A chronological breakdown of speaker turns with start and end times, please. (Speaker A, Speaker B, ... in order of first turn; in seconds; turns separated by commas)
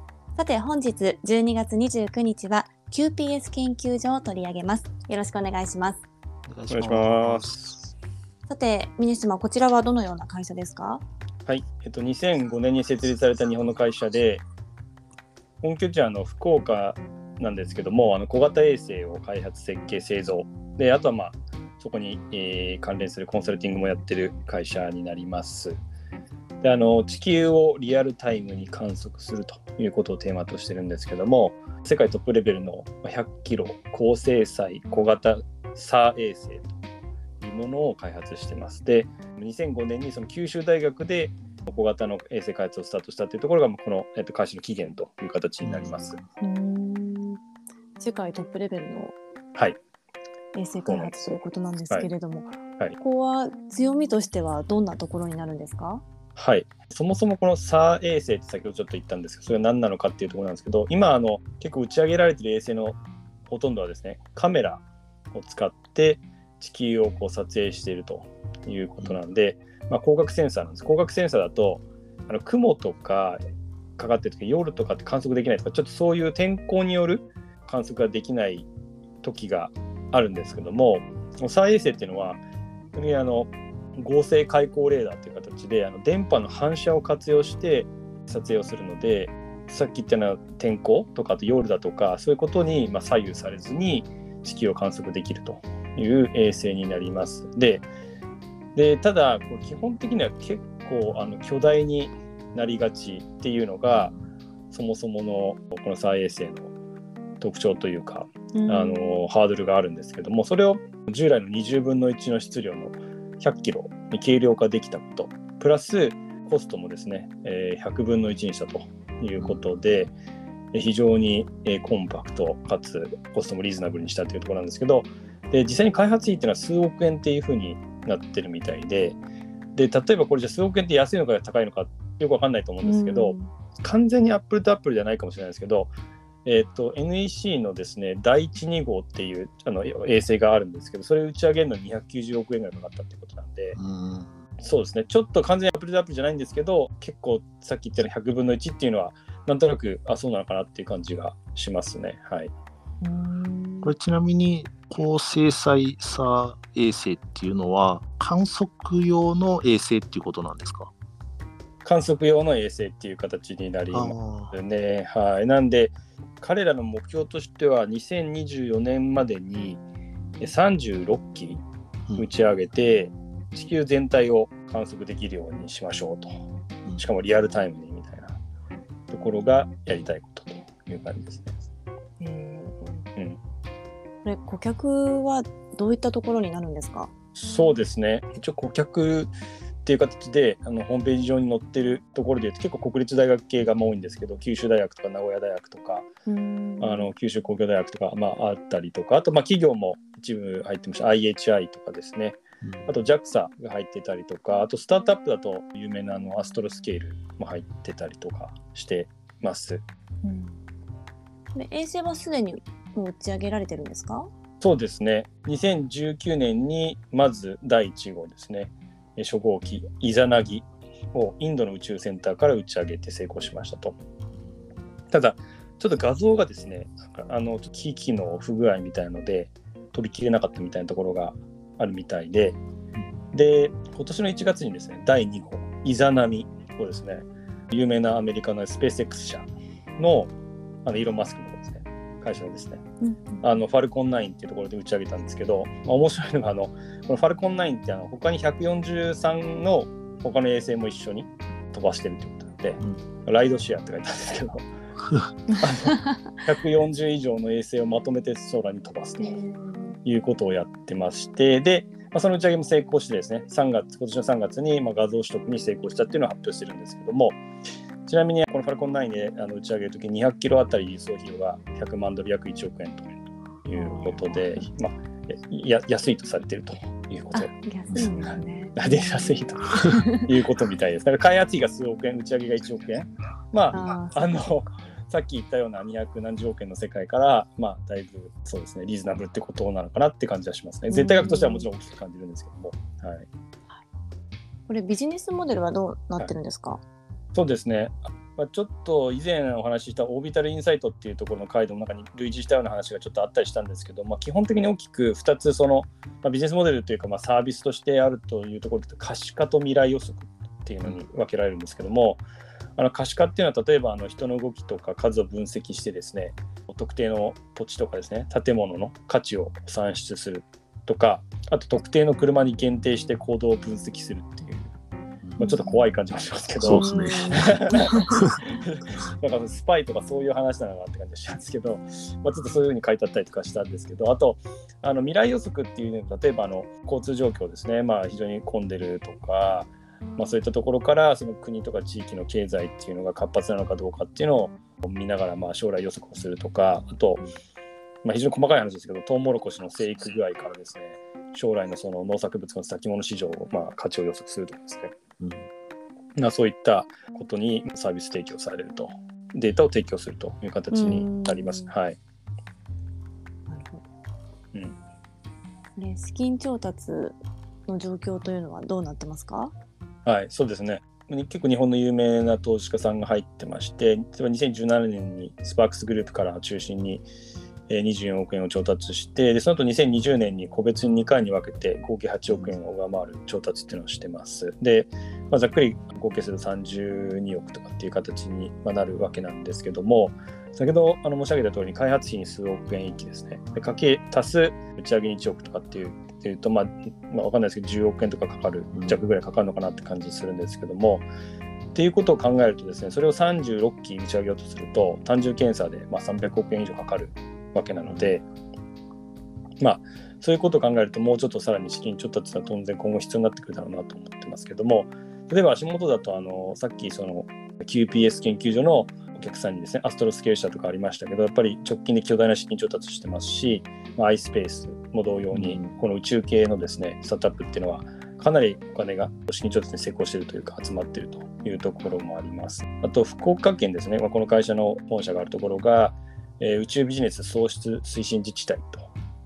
Speaker A: 0.3-6.0, Speaker B: 6.5-7.9, Speaker C: 6.7-7.6, Speaker A: 8.5-11.0, Speaker C: 11.4-14.4, Speaker C: 15.6-25.8, Speaker C: 26.6-36.7, Speaker C: 37.4-46.2, Speaker B: 45.6-46.3, Speaker A: 46.4-47.4, Speaker A: 48.0-49.1, Speaker A: 50.5-56.0, Speaker C: 50.9-51.1, Speaker C: 56.4-73.4, Speaker C: 74.0-78.7, Speaker C: 79.2-82.4, Speaker C: 82.9-97.9, Speaker C: 98.7-104.1, Speaker C: 104.7-106.7, Speaker C: 107.4-120.1, Speaker A: 108.5-109.2, Speaker B: 119.4-119.6, Speaker C: 120.7-129.2, Speaker C: 129.7-135.9, Speaker A: 132.8-133.5, Speaker C: 136.4-143.8, Speaker B: 143.8-144.4, Speaker C: 144.6-152.5, Speaker A: 153.0-153.9, Speaker B: 153.8-160.9, Speaker C: 161.8-169.8, Speaker B: 163.9-164.6, Speaker C: 170.4-171.6, Speaker C: 172.2-176.3, Speaker C: 176.9-178.4, Speaker C: 179.1-181.6, Speaker A: 182.2-183.1, Speaker A: 184.2-187.1, Speaker C: 187.3-189.3, Speaker C: 189.8-196.1, Speaker A: 196.2-197.1, Speaker C: 196.8-209.8, Speaker B: 202.6-202.9, Speaker A: 210.2-210.6, Speaker A: 211.5-214.3, Speaker C: 214.6-224.0, Speaker C: 225.1-232.6, Speaker C: 233.3-240.3, Speaker C: 240.8-242.8, Speaker A: 243.0-243.4, Speaker C: 243.4-254.7, Speaker A: 255.5-256.2, Speaker C: 255.6-259.4, Speaker A: 259.2-259.9, Speaker C: 260.0-267.4, Speaker C: 268.1-273.1, Speaker C: 273.6-293.3, Speaker A: 273.7-274.6, Speaker A: 277.3-279.0, Speaker A: 279.7-280.2, Speaker A: 283.7-284.3, Speaker A: 290.9-291.7, Speaker A: 294.7-296.8, Speaker C: 297.3-312.2, Speaker C: 312.8-324.7, Speaker C: 325.4-327.9, Speaker A: 325.4-325.8, Speaker B: 326.6-327.5, Speaker A: 326.7-328.2, Speaker B: 328.1-328.4, Speaker C: 328.6-347.3, Speaker C: 348.0-355.0, Speaker B: 355.2-355.5, Speaker C: 356.2-362.0, Speaker A: 360.7-361.7, Speaker A: 363.5-363.8, Speaker A: 365.8-369.5, Speaker C: 370.0-377.1, Speaker C: 377.7-401.1, Speaker B: 382.3-382.6, Speaker B: 398.7-399.0, Speaker C: 401.7-408.2, Speaker B: 407.9-408.1, Speaker C: 409.6-438.9, Speaker B: 425.3-425.7